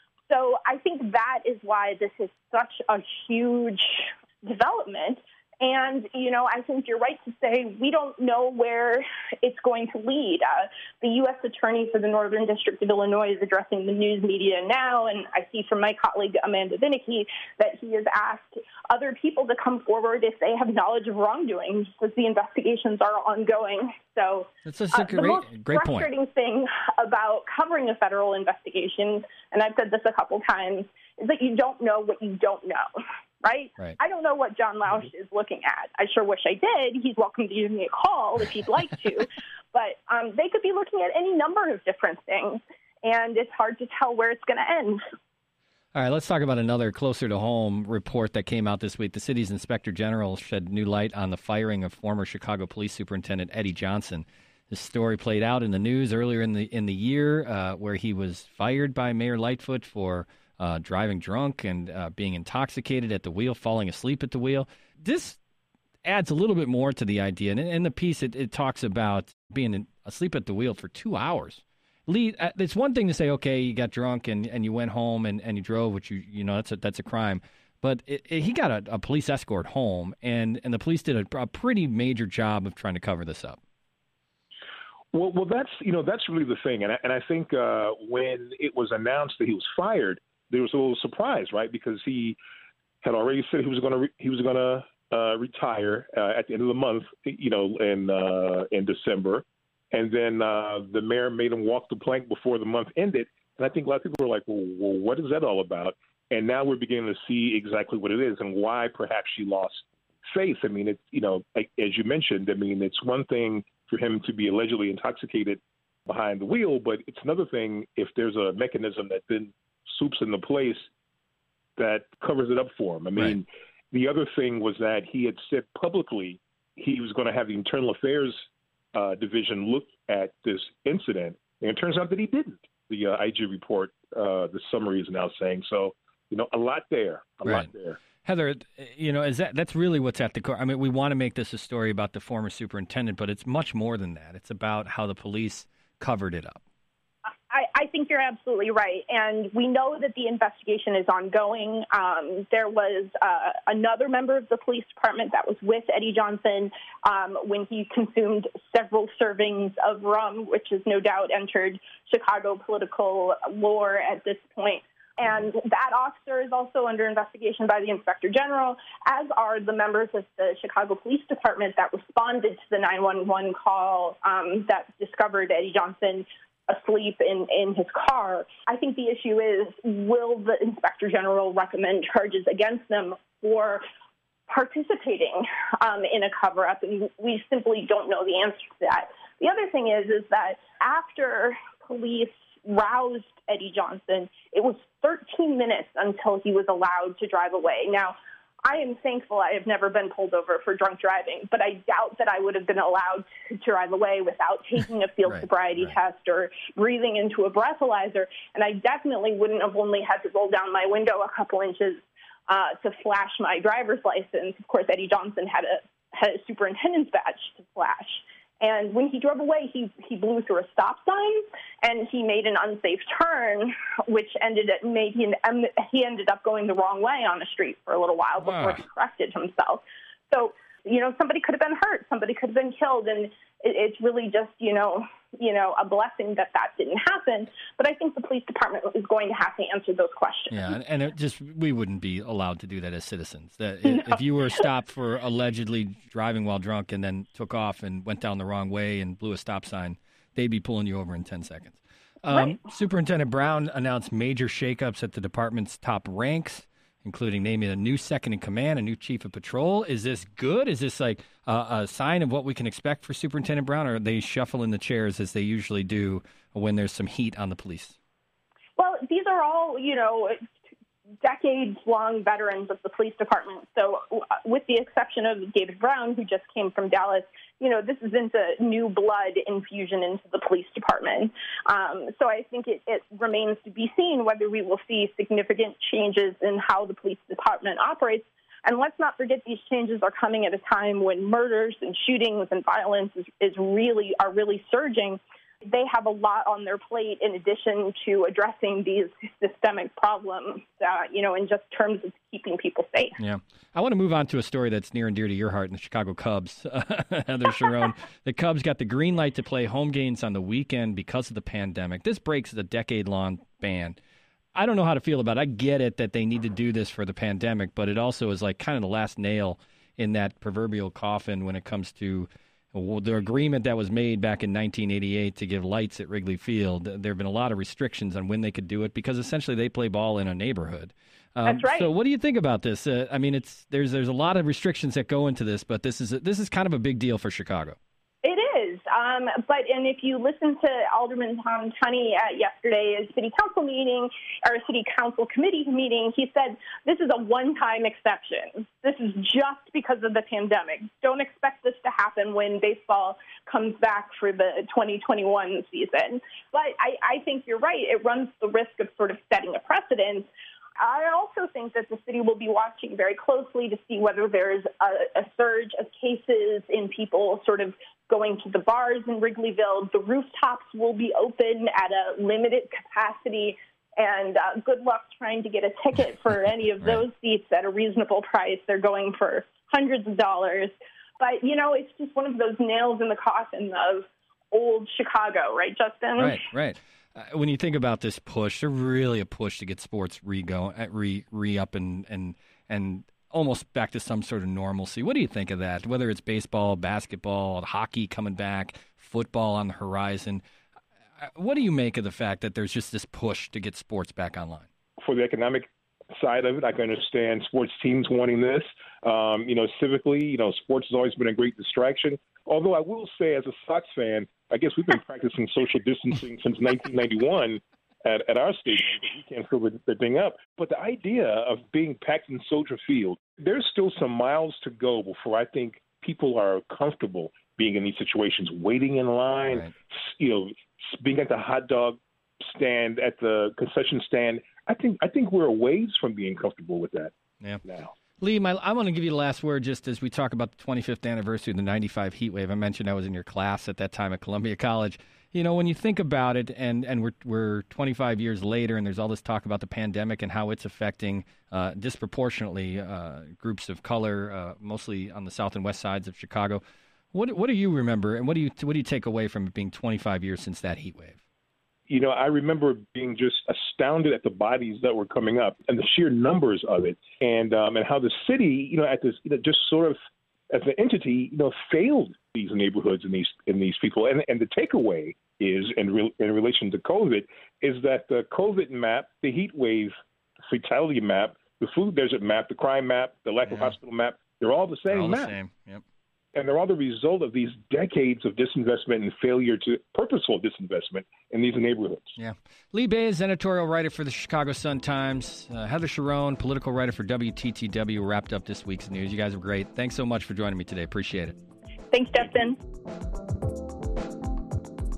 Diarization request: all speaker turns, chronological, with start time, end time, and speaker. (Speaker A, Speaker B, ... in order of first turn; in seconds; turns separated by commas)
Speaker A: 0.3-32.9, Speaker B: 24.6-26.1, Speaker A: 33.4-45.0, Speaker B: 45.9-65.4, Speaker B: 66.0-83.6, Speaker C: 85.1-92.4, Speaker C: 93.0-120.8, Speaker C: 121.8-138.0, Speaker B: 137.4-137.7, Speaker B: 138.2-146.6, Speaker A: 147.5-183.8, Speaker A: 184.5-240.7, Speaker B: 205.3-205.9, Speaker B: 228.4-228.8, Speaker B: 240.5-268.0, Speaker A: 243.9-244.2, Speaker A: 268.8-270.4, Speaker A: 271.2-303.2, Speaker B: 303.2-314.0, Speaker B: 314.5-337.8, Speaker A: 331.4-331.9, Speaker A: 338.2-360.3, Speaker A: 360.8-386.4, Speaker B: 386.2-400.4, Speaker B: 401.2-404.7, Speaker C: 405.0-437.1, Speaker C: 437.6-437.9, Speaker B: 438.2-456.6, Speaker B: 457.1-461.2, Speaker C: 461.9-470.0, Speaker C: 470.5-479.9, Speaker C: 480.5-485.3, Speaker B: 483.4-483.7, Speaker B: 484.9-485.8, Speaker C: 486.3-492.1, Speaker B: 492.2-501.4, Speaker A: 501.9-502.6